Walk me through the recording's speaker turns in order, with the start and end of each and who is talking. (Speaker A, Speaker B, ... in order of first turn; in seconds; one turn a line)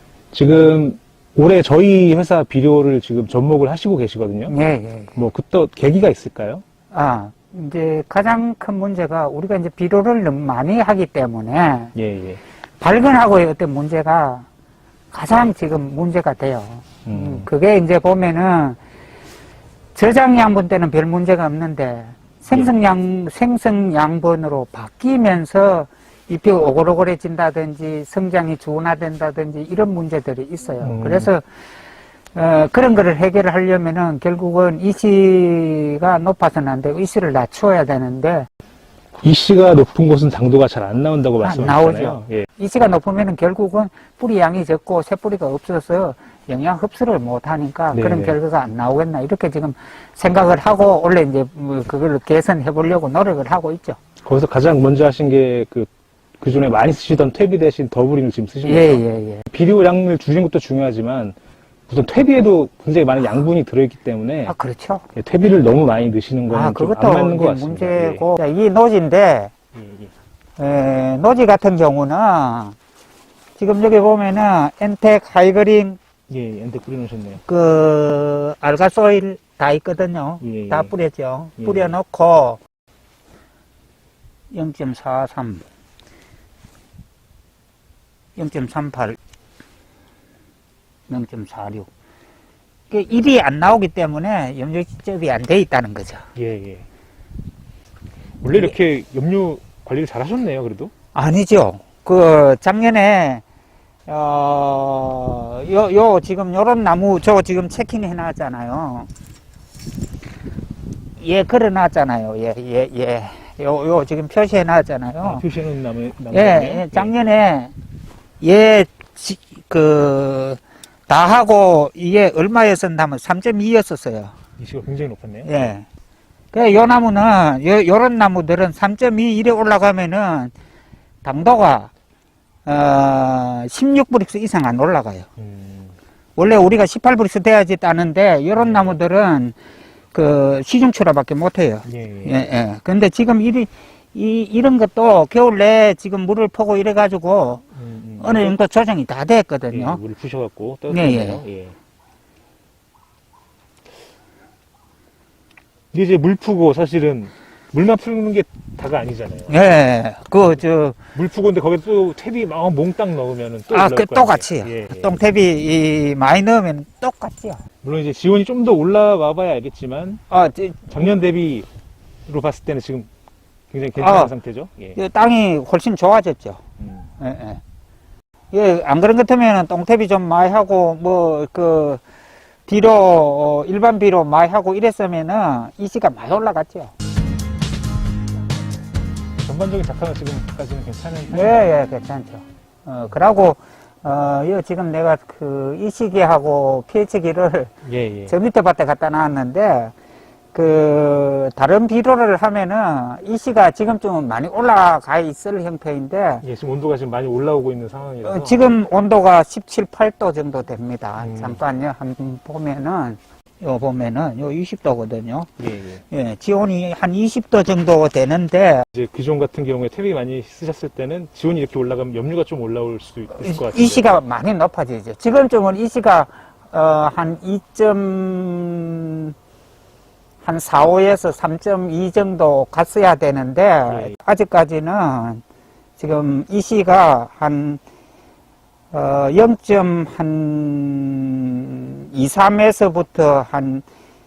Speaker A: 0.3-4.5
Speaker B: 4.5-5.1
Speaker A: 5.1-6.6
Speaker B: 6.9-11.9
Speaker A: 11.9-12.4
Speaker B: 12.8-14.4
Speaker B: 15.1-18.8
Speaker A: 17.1-17.5
Speaker B: 19.9-31.4
Speaker A: 30.8-31.3
Speaker B: 32.3-38.5
Speaker A: 39.2-42.5
Speaker B: 41.4-54.0
Speaker A: 47.9-48.4
Speaker A: 54.2-61.4
Speaker B: 58.6-59.4
Speaker A: 61.9-64.5
Speaker B: 64.5-65.0
Speaker A: 65.1-68.2
Speaker B: 66.5-69.5
Speaker A: 69.7-70.1
Speaker B: 70.6-72.8
Speaker B: 73.6-76.0
Speaker A: 76.3-77.4
Speaker B: 77.4-82.6
Speaker A: 80.4-80.9
Speaker A: 81.6-81.9
Speaker B: 84.5-85.6
Speaker B: 88.3-89.2
Speaker B: 91.1-91.9
Speaker B: 92.9-96.3
Speaker A: 96.3-96.8
Speaker A: 98.4-100.9
Speaker B: 101.1-103.4
Speaker B: 104.1-109.1
Speaker B: 111.2-115.4
Speaker A: 115.2-117.1
Speaker B: 116.3-117.7
Speaker B: 118.4-124.3
Speaker A: 124.6-125.7
Speaker B: 125.4-125.8
Speaker B: 126.5-130.5
Speaker B: 131.2-131.9
Speaker B: 132.7-135.3
Speaker A: 135.4-135.9
Speaker B: 136.3-139.6
Speaker A: 138.6-139.0
Speaker B: 140.1-147.6
Speaker A: 141.8-142.4
Speaker A: 147.8-148.6
Speaker B: 148.2-150.0
Speaker A: 149.7-151.8
Speaker B: 150.9-151.4
Speaker A: 155.9-159.6
Speaker B: 159.5-161.0
Speaker A: 161.1-165.2
Speaker B: 163.7-167.6
Speaker A: 167.8-170.2
Speaker B: 170.3-171.0
Speaker A: 170.9-171.7
Speaker A: 172.3-173.1
Speaker A: 173.7-175.0
Speaker B: 174.0-174.3
Speaker B: 174.9-176.6
Speaker A: 176.8-177.1
Speaker B: 177.2-177.6
Speaker B: 178.5-182.0
Speaker B: 182.7-186.9
Speaker A: 189.4-191.7
Speaker B: 191.3-197.7
Speaker A: 197.8-198.3
Speaker B: 198.3-199.9
Speaker B: 200.5-206.4
Speaker A: 206.4-208.7
Speaker B: 208.2-215.5
Speaker A: 211.2-211.6
Speaker A: 215.6-216.0
Speaker B: 216.1-218.8
Speaker A: 218.9-224.2
Speaker B: 223.3-229.3
Speaker B: 230.4-235.4
Speaker A: 233.9-234.2
Speaker B: 236.0-237.8
Speaker B: 238.9-243.8